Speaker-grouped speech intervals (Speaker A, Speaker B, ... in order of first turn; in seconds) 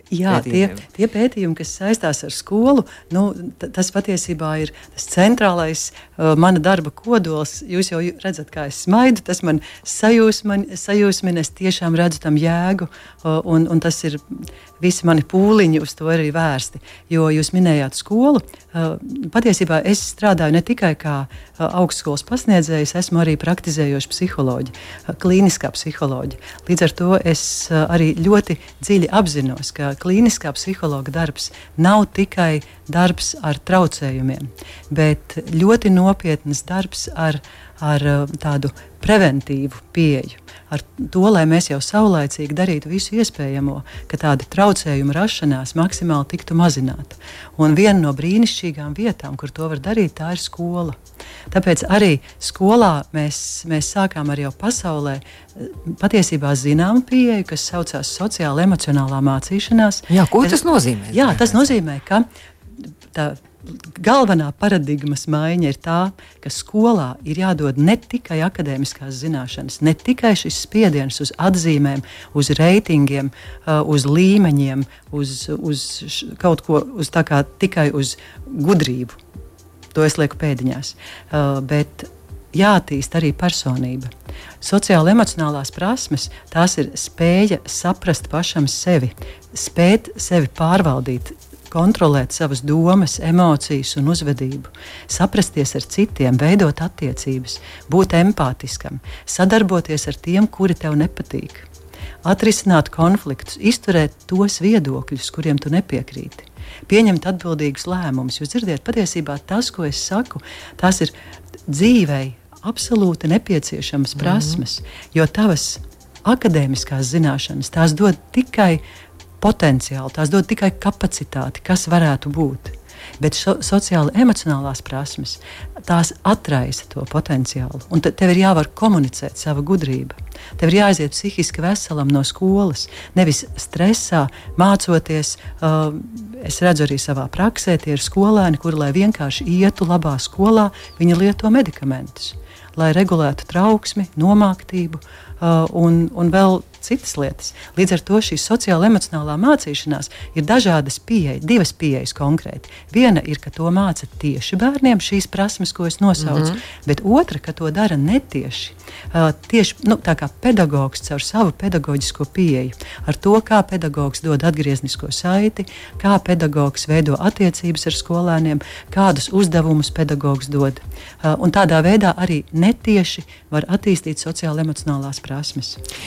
Speaker A: 0.1-51.0, 51.5-60.6, 61.1-62.2, 63.1-79.2, 79.9-84.1, 84.6-101.7, 102.2-111.1, 111.7-118.8, 119.4-175.8
Speaker B: 0.3-0.8, 60.1-61.7, 114.2-114.6, 156.2-156.6